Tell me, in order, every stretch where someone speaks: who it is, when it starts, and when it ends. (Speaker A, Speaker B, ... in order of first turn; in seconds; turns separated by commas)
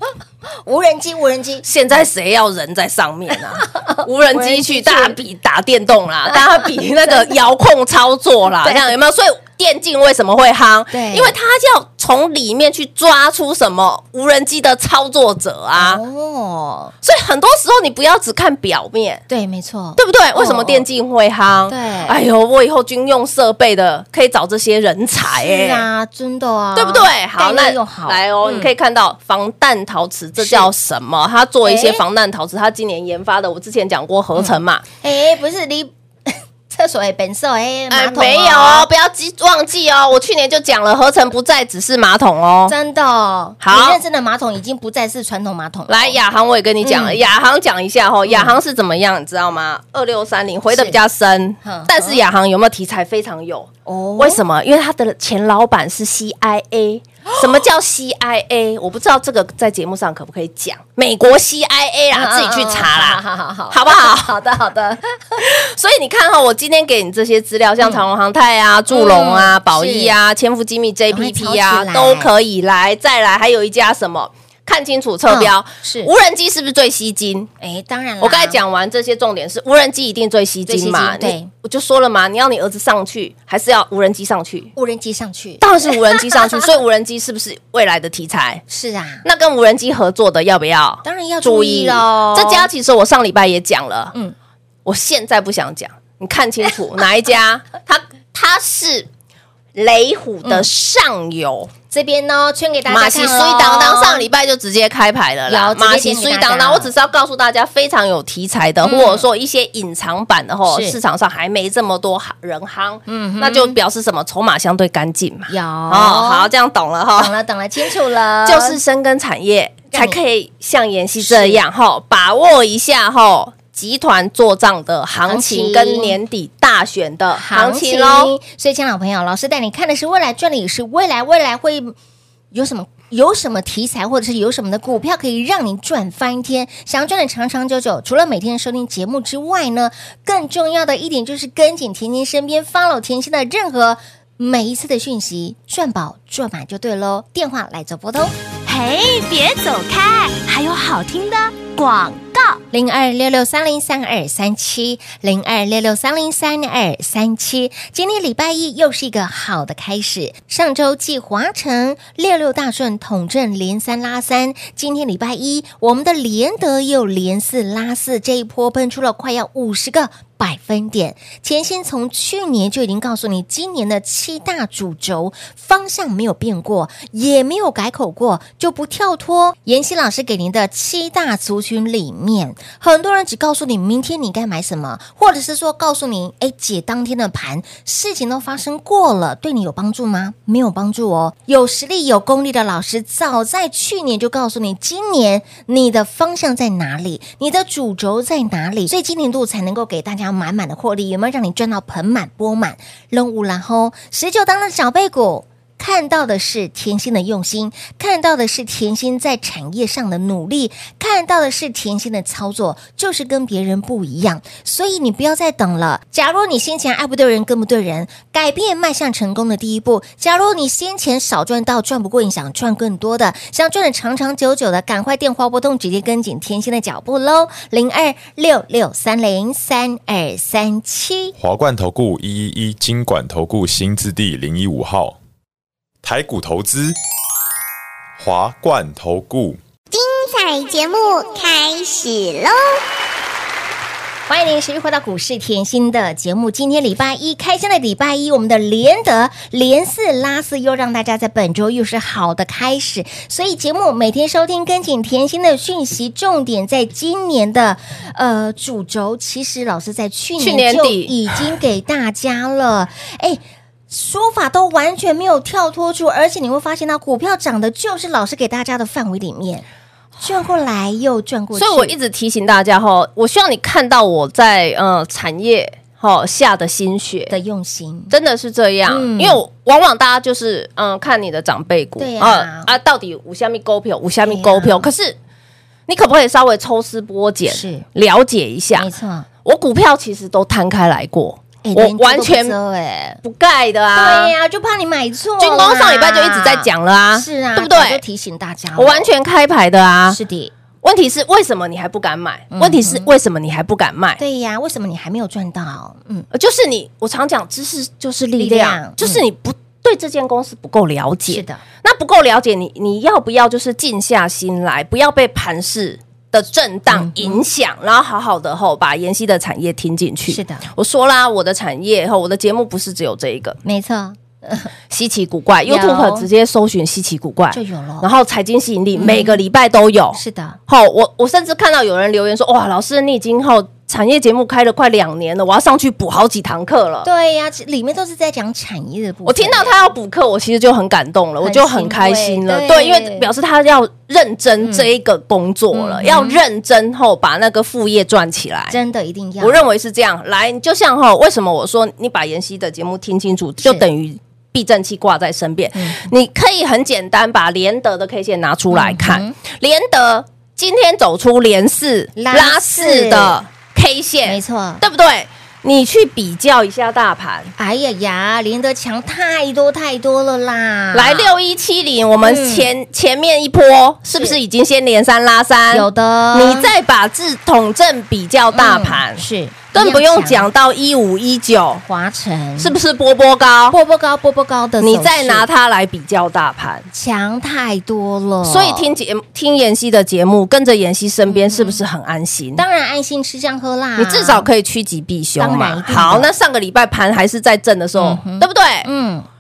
Speaker A: 0.7-1.7, Speaker B: 1.6-16.0, Speaker A: 3.6-5.2, Speaker A: 8.6-8.9, Speaker A: 10.9-11.3, Speaker A: 15.8-16.9, Speaker B: 17.0-19.2, Speaker A: 19.3-20.9, Speaker B: 20.0-25.9, Speaker A: 21.7-22.2, Speaker A: 25.4-28.7, Speaker B: 26.8-34.8, Speaker A: 30.4-30.7, Speaker A: 31.6-32.0, Speaker A: 34.4-38.9, Speaker B: 37.9-42.8, Speaker A: 42.7-46.2, Speaker B: 43.6-44.0, Speaker B: 45.9-63.2, Speaker A: 46.8-47.2, Speaker A: 48.3-48.6, Speaker A: 50.7-51.0, Speaker A: 51.6-52.2, Speaker A: 53.9-54.4, Speaker A: 62.1-65.4, Speaker B: 63.7-64.3, Speaker B: 65.4-77.5, Speaker A: 68.9-70.2, Speaker A: 71.1-72.3, Speaker A: 75.3-76.1, Speaker A: 77.6-78.6, Speaker B: 78.2-84.7, Speaker A: 80.7-81.5, Speaker A: 84.8-86.6, Speaker B: 85.6-88.6, Speaker A: 88.7-89.2, Speaker B: 89.2-94.1, Speaker A: 91.0-92.7, Speaker B: 94.8-99.1, Speaker B: 99.8-101.7, Speaker A: 101.9-104.3, Speaker B: 102.9-117.3, Speaker A: 105.5-106.9, Speaker A: 108.8-109.3, Speaker A: 110.7-111.0, Speaker A: 113.1-113.8, Speaker A: 115.5-116.5, Speaker A: 117.2-118.8, Speaker B: 118.5-128.3, Speaker A: 119.9-120.2, Speaker A: 121.2-121.6, Speaker A: 125.3-126.2, Speaker A: 127.3-131.9, Speaker A: 132.5-148.3, Speaker C: 148.7-152.6, Speaker A: 152.7-231.3, Speaker D: 231.4-235.2, Speaker D: 236.0-237.0, Speaker D: 238.2-239.6, Speaker E: 239.9-242.8, Speaker A: 244.3-269.6, Speaker B: 260.4-261.2, Speaker A: 270.2-271.9, Speaker B: 271.5-277.4, Speaker A: 277.3-278.1, Speaker B: 278.1-285.2, Speaker A: 278.9-279.4, Speaker A: 282.0-282.7, Speaker A: 284.2-284.9, Speaker B: 285.9-288.9, Speaker A: 287.5-287.9, Speaker A: 288.8-289.3, Speaker B: 289.4-292.6, Speaker A: 291.6-293.2, Speaker B: 293.2-294.3, Speaker A: 293.9-299.1, Speaker B: 295.4-298.0, Speaker B: 298.8-300.2, Speaker A: 300.1-300.5, Speaker B: 300.8-304.2, Speaker A: 302.5-303.1, Speaker A: 304.2-306.3, Speaker B: 306.3-323.6, Speaker A: 308.4-309.2, Speaker A: 311.3-311.6, Speaker A: 316.9-317.4, Speaker A: 320.3-320.7, Speaker A: 323.6-324.7, Speaker B: 324.9-337.1, Speaker A: 325.7-326.3, Speaker A: 327.5-328.1, Speaker A: 328.9-329.4, Speaker A: 330.1-330.6, Speaker A: 337.0-339.8, Speaker B: 339.3-348.8, Speaker A: 341.4-343.3, Speaker A: 345.7-346.4, Speaker A: 348.7-349.6, Speaker B: 349.4-367.5, Speaker A: 355.8-356.1, Speaker A: 358.7-359.4, Speaker A: 362.2-363.4, Speaker A: 364.2-364.8, Speaker A: 367.6-371.4, Speaker B: 370.9-381.8, Speaker A: 372.2-372.7, Speaker A: 375.7-376.7, Speaker A: 378.5-380.5, Speaker A: 381.9-382.7, Speaker B: 382.6-383.8, Speaker A: 383.7-385.5, Speaker B: 384.8-386.9, Speaker A: 386.9-388.9, Speaker B: 388.4-392.6, Speaker A: 391.3-391.8, Speaker A: 392.6-394.5, Speaker B: 394.0-398.9, Speaker A: 395.4-396.3, Speaker A: 398.0-399.3